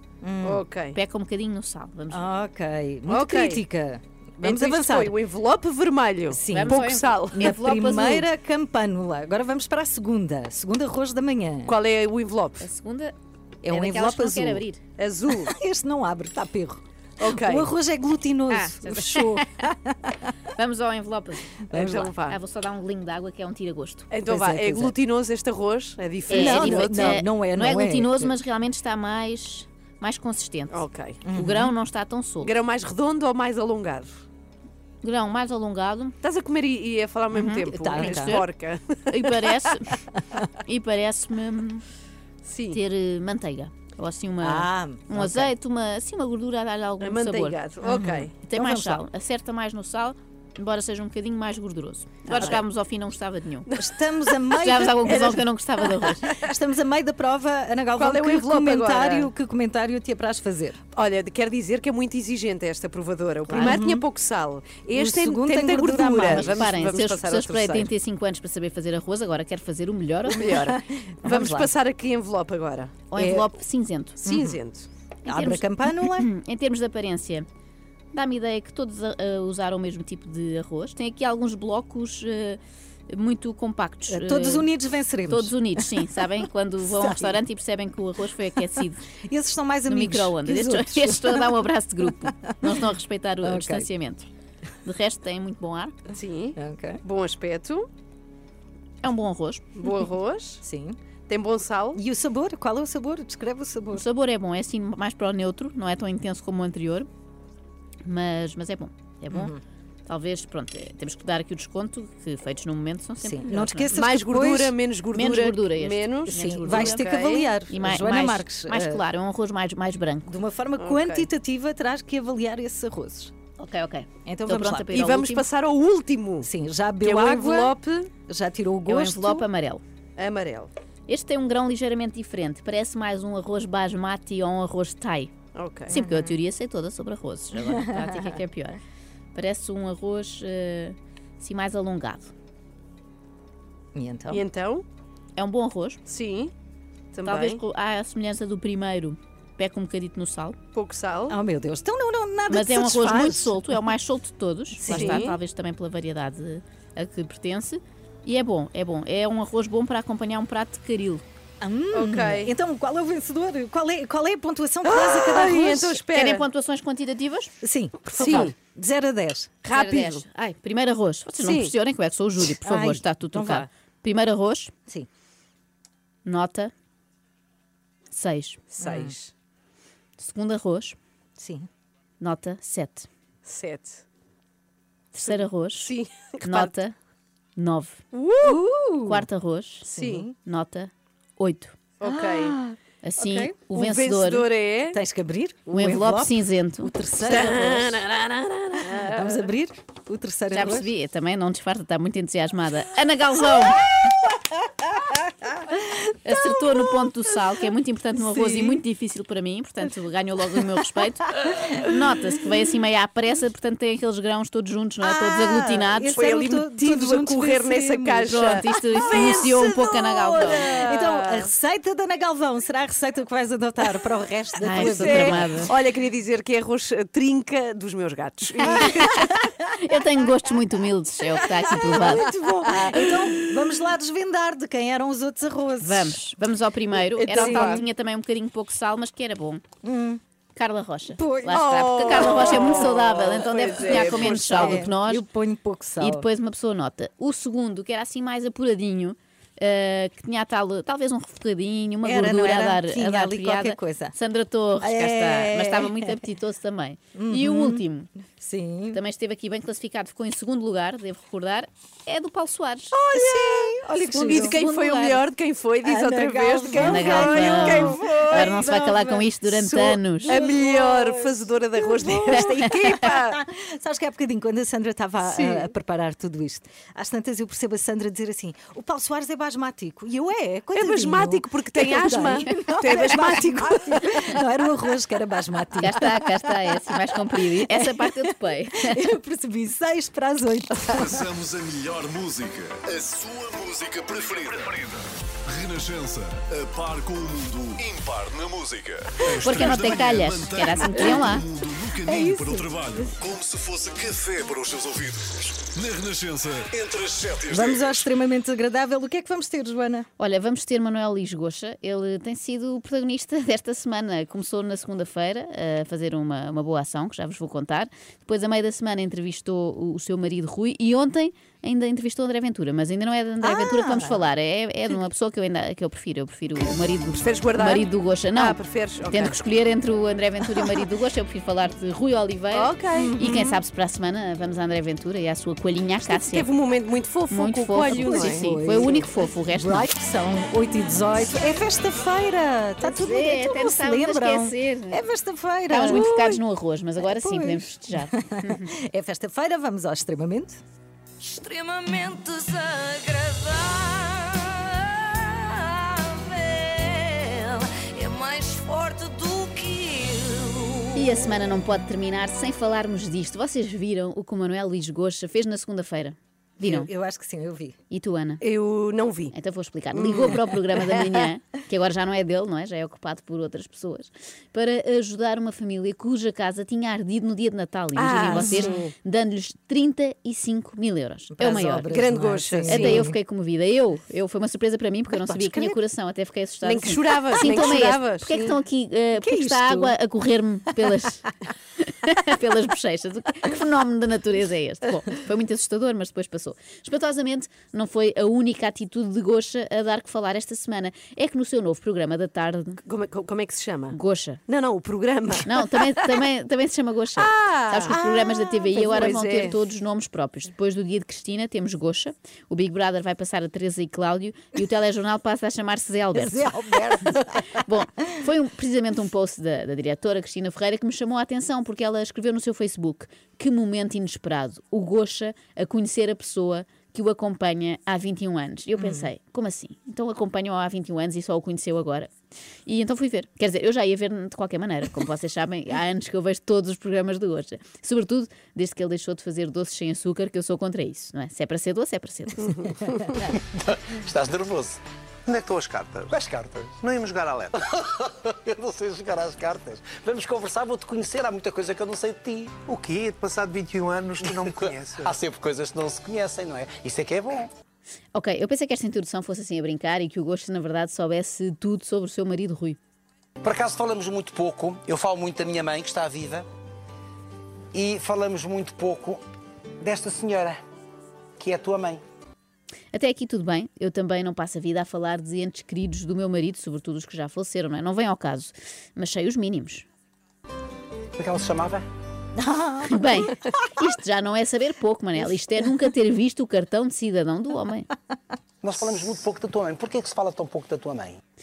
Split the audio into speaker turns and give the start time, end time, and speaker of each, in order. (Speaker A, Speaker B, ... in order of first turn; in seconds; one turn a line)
Speaker A: 0.2-0.6
Speaker B: 0.4-1.0
Speaker C: 0.9-2.3
Speaker A: 2.1-5.1
Speaker B: 3.1-3.6
Speaker B: 4.4-7.6
Speaker A: 6.3-11.7
Speaker C: 6.5-8.3
Speaker B: 11.7-12.6
Speaker C: 12.6-13.1
Speaker A: 13.6-14.6
Speaker C: 13.7-14.8
Speaker B: 15.0-15.6
Speaker A: 15.4-20.1
Speaker B: 17.2-17.7
Speaker C: 18.5-19.4
Speaker C: 20.5-21.5
Speaker A: 21.7-22.1
Speaker B: 21.7-22.4
Speaker C: 22.2-24.1
Speaker B: 24.1-27.2
Speaker A: 24.2-24.9
Speaker C: 26.3-30.8
Speaker A: 26.3-28.3
Speaker B: 30.7-31.2
Speaker A: 31.2-31.7
Speaker C: 31.3-32.5
Speaker B: 32.4-34.2
Speaker C: 35.0-36.1
Speaker B: 36.2-39.6
Speaker C: 37.3-38.5
Speaker A: 37.7-38.4
Speaker C: 39.1-40.0
Speaker C: 40.6-41.8
Speaker B: 42.4-42.8
Speaker C: 42.7-47.6
Speaker A: 44.4-45.5
Speaker B: 47.0-48.3
Speaker A: 47.8-49.0
Speaker C: 48.4-53.7
Speaker B: 52.2-52.6
Speaker B: 53.7-54.3
Speaker A: 53.8-55.4
Speaker C: 54.5-56.3
Speaker B: 55.1-55.4
Speaker A: 56.3-60.8
Speaker B: 58.0-59.3
Speaker B: 60.9-67.9
Speaker C: 63.5-63.8
Speaker A: 63.5-64.0
Speaker A: 64.9-67.0
Speaker C: 66.3-70.5
Speaker B: 70.3-73.0
Speaker A: 70.3-71.7
Speaker C: 73.1-74.2
Speaker A: 73.2-73.5
Speaker A: 74.2-74.6
Speaker B: 74.2-74.9
Speaker C: 75.2-77.5
Speaker A: 75.2-76.3
Speaker C: 78.1-84.7
Speaker A: 84.1-86.0
Speaker C: 85.3-89.0
Speaker A: 86.8-87.4
Speaker A: 89.3-91.6
Speaker C: 89.9-94.2
Speaker A: 93.4-93.9
Speaker C: 94.8-95.9
Speaker B: 96.1-97.9
Speaker A: 96.6-97.0
Speaker C: 99.0-99.8
Speaker B: 99.8-100.6
Speaker A: 100.6-101.0
Speaker B: 101.3-102.0
Speaker A: 101.9-104.0
Speaker C: 103.9-107.1
Speaker C: 108.0-109.5
Speaker A: 109.3-109.6
Speaker C: 110.1-113.9
Speaker A: 113.2-114.8
Speaker B: 113.9-117.5
Speaker C: 115.1-117.1
Speaker A: 116.3-119.0
Speaker C: 117.7-120.3
Speaker A: 120.3-123.3
Speaker B: 120.8-121.3
Speaker C: 123.6-125.4
Speaker A: 124.2-124.9
Speaker B: 124.9-126.5
Speaker A: 126.4-129.4
Speaker B: 127.0-128.1
Speaker C: 128.9-129.8
Speaker B: 130.2-130.7
Speaker C: 131.1-135.3
Speaker B: 135.5-136.0
Speaker C: 135.9-138.8
Speaker A: 135.9-136.3
Speaker A: 137.6-138.3
Speaker C: 139.3-142.3
Speaker A: 143.9-144.4
Speaker B: 144.3-144.8
Speaker C: 145.4-146.0
Speaker B: 146.1-146.5
Speaker B: 147.1-147.6
Speaker C: 147.2-150.6
Speaker B: 150.7-151.4
Speaker A: 151.3-153.6
Speaker C: 152.5-161.2
Speaker A: 154.8-155.3
Speaker B: 154.9-155.4
Speaker A: 161.6-166.0
Speaker B: 161.9-162.5
Speaker B: 164.8-166.4
Speaker C: 166.1-167.5
Speaker A: 167.6-169.6
Speaker B: 168.1-168.5
Speaker B: 169.6-170.2
Speaker C: 169.7-174.7
Speaker B: 171.4-171.7
Speaker A: 172.6-173.6
Speaker C: 176.2-176.7
Speaker C: 178.1-178.6
Speaker B: 178.8-179.3
Speaker A: 178.8-179.1
Speaker C: 180.2-181.0
Speaker A: 181.4-181.7
Speaker C: 182.2-183.1
Speaker B: 183.4-184.0
Speaker C: 185.1-185.9
Speaker B: 185.8-186.7
Speaker C: 186.4-186.9
Speaker C: 187.6-188.0
Speaker B: 188.1-188.6
Speaker A: 188.4-189.2
Speaker C: 189.1-189.9
Speaker B: 189.8-190.2
Speaker A: 189.9-190.3
Speaker C: 190.4-191.8
Speaker B: 192.0-192.6
Speaker A: 192.0-193.5
Speaker C: 193.0-194.4
Speaker B: 193.7-195.0
Speaker A: 194.9-198.0
Speaker C: 195.7-196.9
Speaker B: 197.2-199.5
Speaker A: 198.8-200.9
Speaker C: 200.5-203.8
Speaker A: 203.9-207.0
Speaker C: 206.2-216.2
Speaker A: 208.2-208.8
Speaker A: 211.4-211.9
Speaker A: 215.0-225.7
Speaker B: 216.1-219.8
Speaker C: 218.3-220.7
Speaker B: 220.4-221.5
Speaker C: 224.6-225.7
Speaker B: 224.7-229.3
Speaker A: 228.6-229.8
Speaker C: 228.8-232.3
Speaker A: 231.5-236.2
Speaker B: 232.7-233.1
Speaker C: 235.8-239.6
Speaker B: 237.2-237.8
Speaker A: 237.3-237.8
Speaker A: 239.8-240.2
Speaker C: 240.6-245.2
Speaker A: 241.2-242.9
Speaker B: 241.5-244.9
Speaker A: 243.8-246.2
Speaker C: 246.0-258.1
Speaker A: 252.0-254.1
Speaker A: 254.8-256.2
Speaker A: 257.1-257.8
Speaker A: 258.4-259.0
Speaker C: 258.9-262.9
Speaker B: 262.9-268.6
Speaker A: 263.1-264.6
Speaker C: 264.1-265.2
Speaker A: 265.8-286.8
Speaker C: 266.8-270.3
Speaker B: 270.2-273.4
Speaker B: 275.2-275.7
Speaker B: 280.7-284.4
Speaker C: 285.8-289.1
Speaker A: 287.4-291.2
Speaker D: 290.9-308.1
Speaker C: 299.4-301.4
Speaker A: 302.0-302.7
Speaker A: 307.5-310.1
Speaker C: 310.2-328.6
Speaker A: 323.4-324.2
Speaker B: 327.2-329.4
Speaker C: 329.1-336.5
Speaker B: 332.5-333.2
Speaker A: 332.9-333.6
Speaker B: 336.1-338.9
Speaker C: 337.3-339.9
Speaker A: 337.8-346.1
Speaker C: 342.8-345.0
Speaker C: 345.7-348.7
Speaker B: 345.8-346.4
Speaker A: 347.0-350.6
Speaker E: 351.2-361.1
Speaker C: 360.9-366.9
Speaker A: 366.6-367.8
Speaker C: 367.9-368.4
Speaker B: 368.4-369.3
Speaker C: 369.3-381.9
Speaker B: 369.9-370.9
Speaker B: 377.9-378.9
Speaker A: 378.3-378.9
Speaker A: 381.4-383.2
Speaker B: 381.9-383.1
Speaker C: 382.7-391.2
Speaker A: 385.1-385.8
Speaker B: 386.6-388.4
Speaker A: 387.4-388.5
Speaker A: 389.2-389.9
Speaker C: 391.8-402.8
Speaker B: 402.9-406.1
Speaker C: 403.9-404.4
Speaker C: 405.4-432.1
Speaker B: 407.1-409.6
Speaker A: 407.9-408.2
Speaker A: 408.8-409.0
Speaker A: 416.1-417.6
Speaker A: 428.8-429.1
Speaker C: 432.6-442.6
Speaker F: 443.3-444.8
Speaker G: 445.2-446.1
Speaker F: 446.1-446.8
Speaker G: 446.8-447.6
Speaker F: 447.7-452.6
Speaker G: 452.6-455.1
Speaker F: 454.2-457.5
Speaker C: 458.1-462.8
Speaker F: 463.4-466.4
Speaker F: 467.7-469.2
Speaker F: 469.8-470.6
Speaker F: 471.4-472.0
Speaker C: 472.9-479.9
Speaker F: 481.2-481.9
Speaker A: 482.4-483.3
Speaker C: 482.9-487.9
Speaker F: 488.6-491.2